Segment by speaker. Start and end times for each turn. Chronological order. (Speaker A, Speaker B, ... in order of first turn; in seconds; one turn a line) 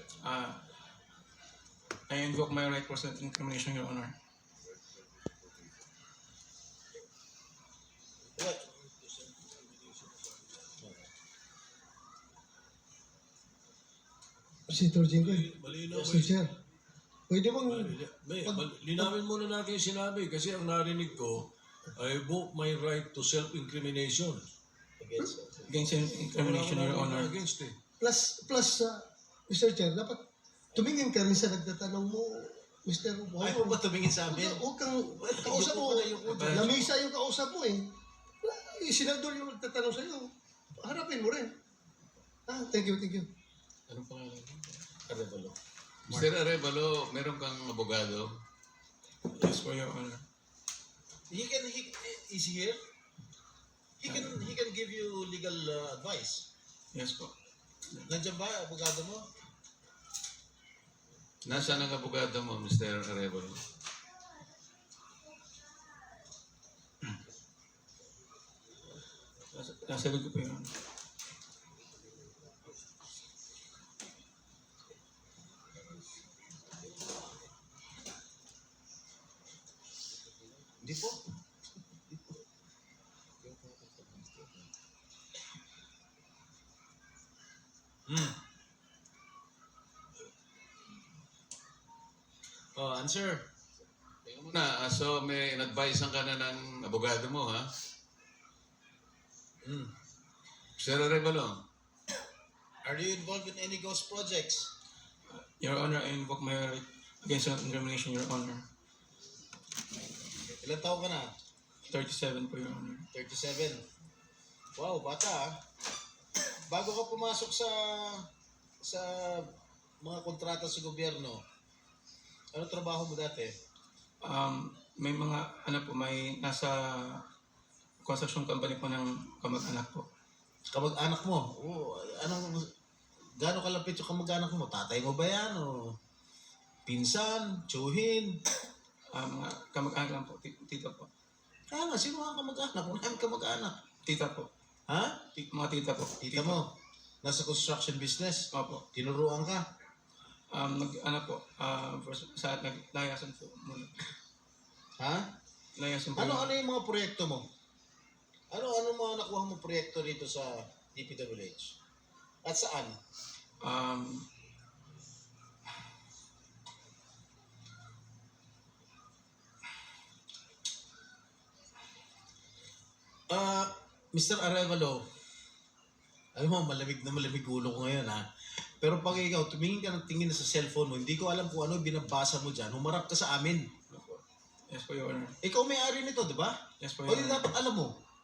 Speaker A: 0.2-0.6
Speaker A: 2.1-4.1
Speaker B: 8.4-8.6
Speaker C: 8.8-10.7
Speaker D: 14.7-15.4
Speaker C: 15.1-16.4
Speaker D: 16.0-16.5
Speaker D: 17.3-19.1
Speaker C: 17.6-24.5
Speaker B: 25.0-25.7
Speaker A: 25.7-27.3
Speaker C: 26.2-27.8
Speaker D: 28.0-30.2
Speaker D: 30.7-37.9
Speaker B: 33.4-34.6
Speaker B: 35.1-36.9
Speaker A: 36.3-36.8
Speaker D: 38.4-41.5
Speaker D: 42.5-43.3
Speaker E: 43.9-45.1
Speaker B: 45.1-45.5
Speaker E: 46.1-48.3
Speaker A: 49.3-50.2
Speaker B: 51.3-52.8
Speaker B: 54.0-56.4
Speaker A: 54.1-54.4
Speaker A: 56.9-57.3
Speaker B: 58.1-59.2
Speaker E: 61.4-63.6
Speaker B: 61.5-61.8
Speaker A: 69.5-70.7
Speaker B: 80.8-81.2
Speaker E: 83.4-84.6
Speaker B: 88.1-88.3
Speaker B: 92.8-93.4
Speaker E: 94.2-97.7
Speaker B: 99.6-99.9
Speaker E: 100.8-101.6
Speaker B: 102.8-104.7
Speaker A: 105.3-108.6
Speaker B: 110.6-111.2
Speaker A: 111.9-113.0
Speaker B: 113.1-113.8
Speaker B: 114.8-115.5
Speaker B: 116.7-118.2
Speaker B: 118.8-121.4
Speaker B: 122.5-123.5
Speaker A: 124.2-127.2
Speaker A: 128.0-130.1
Speaker B: 130.7-132.6
Speaker B: 133.4-135.9
Speaker B: 136.9-138.3
Speaker A: 139.1-141.1
Speaker B: 141.7-143.8
Speaker A: 144.0-144.5
Speaker B: 144.9-145.2
Speaker A: 145.4-146.6
Speaker B: 146.2-146.6
Speaker B: 147.2-149.6
Speaker A: 148.5-148.8
Speaker A: 150.5-154.0
Speaker B: 155.0-155.2
Speaker A: 155.8-156.5
Speaker B: 156.2-157.4
Speaker B: 158.5-161.8
Speaker B: 162.4-162.9
Speaker A: 163.6-164.2
Speaker B: 173.3-175.0
Speaker B: 176.3-178.2
Speaker B: 178.8-183.7
Speaker A: 183.9-185.3
Speaker B: 185.4-186.6
Speaker A: 186.8-187.5
Speaker B: 187.1-187.9